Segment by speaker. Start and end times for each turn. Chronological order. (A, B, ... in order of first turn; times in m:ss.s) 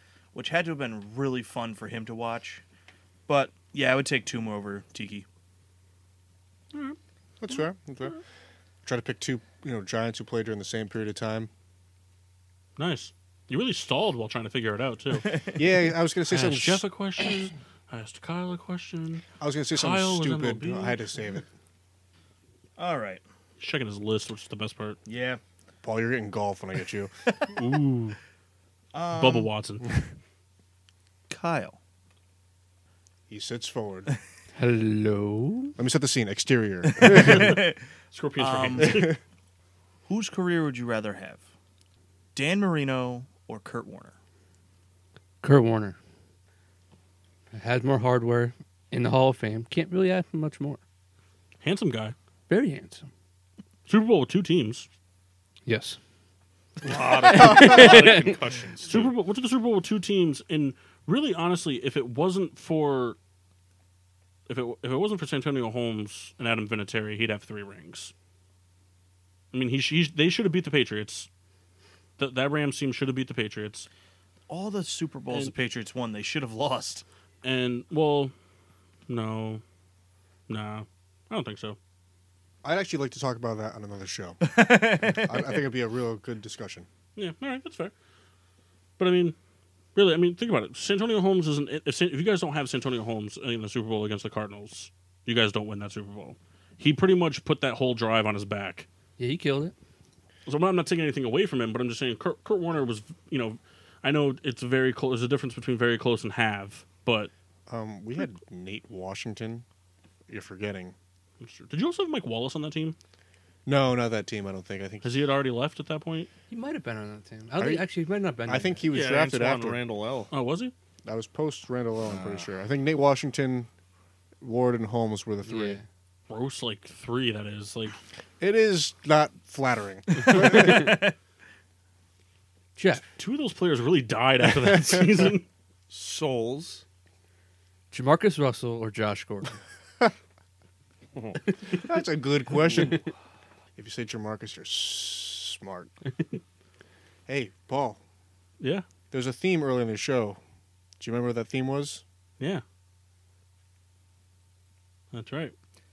0:00.3-0:02.6 A
0:03.3-0:05.2 A
0:06.7-0:07.0 B
0:07.4-0:08.2 C
0:07.5-0:08.2 B
0:08.8-0:11.5 C
0:12.8-0:15.5 B
0:15.2-0:15.6 A
0:15.5-0:16.8 C
0:16.3-0:21.0 B
0:19.4-0:21.5 C
0:22.8-0:23.2 A
0:23.6-0:25.0 B
0:25.1-0:25.4 A
0:25.8-0:27.1 C
0:27.5-0:28.2 B
0:28.9-0:29.5 A
0:29.1-0:30.0 B
0:31.3-0:31.8 A
0:33.3-0:34.1 C
0:34.6-0:35.7 D
0:35.8-0:37.6 C
0:37.0-0:39.2 B
0:37.2-0:37.8 A
0:38.4-0:39.0 A
0:38.8-0:39.1 C
0:40.1-0:41.4 A
0:42.3-0:44.1 A
0:45.4-0:46.0 D
0:47.5-0:50.8 D
0:51.6-0:52.1 B
0:52.5-0:53.1 D
0:53.9-0:54.9 B
0:55.6-0:56.0 D
0:56.8-0:59.1 E
0:57.2-0:58.4 D
0:58.9-1:03.2 B
1:04.5-1:08.1 B
1:09.5-1:11.3 B
1:12.2-1:13.9 B
1:14.5-1:17.0 A
1:17.4-1:18.3 B
1:19.1-1:19.6 B
1:20.5-1:21.8 B
1:22.6-1:26.9 C
1:24.4-1:25.5 A
1:27.2-1:27.9 B
1:29.0-1:29.4 B
1:29.9-1:38.9 B
1:39.2-1:39.7 D
1:40.4-1:47.3 B
1:47.7-1:49.6 C
1:50.3-1:50.9 C
1:51.4-1:53.0 B
1:53.6-1:55.2 C
1:55.0-1:56.3 B
1:56.5-1:58.8 D
1:57.6-1:57.9 C
1:58.4-1:59.8 C
1:58.9-2:00.3 E
2:00.3-2:00.7 B
2:01.0-2:03.7 C
2:04.4-2:05.8 C
2:05.4-2:05.8 D
2:06.3-2:08.0 B
2:08.4-2:11.0 C
2:10.3-2:11.1 A
2:12.8-2:13.0 D
2:13.2-2:15.4 B
2:14.7-2:15.1 C
2:15.9-2:16.8 E
2:17.9-2:19.6 D
2:21.1-2:21.4 E
2:21.7-2:23.0 C
2:23.8-2:25.9 C
2:27.3-2:28.0 C
2:28.6-2:28.8 B
2:29.1-2:30.4 C
2:31.0-2:32.0 C
2:35.1-2:35.5 B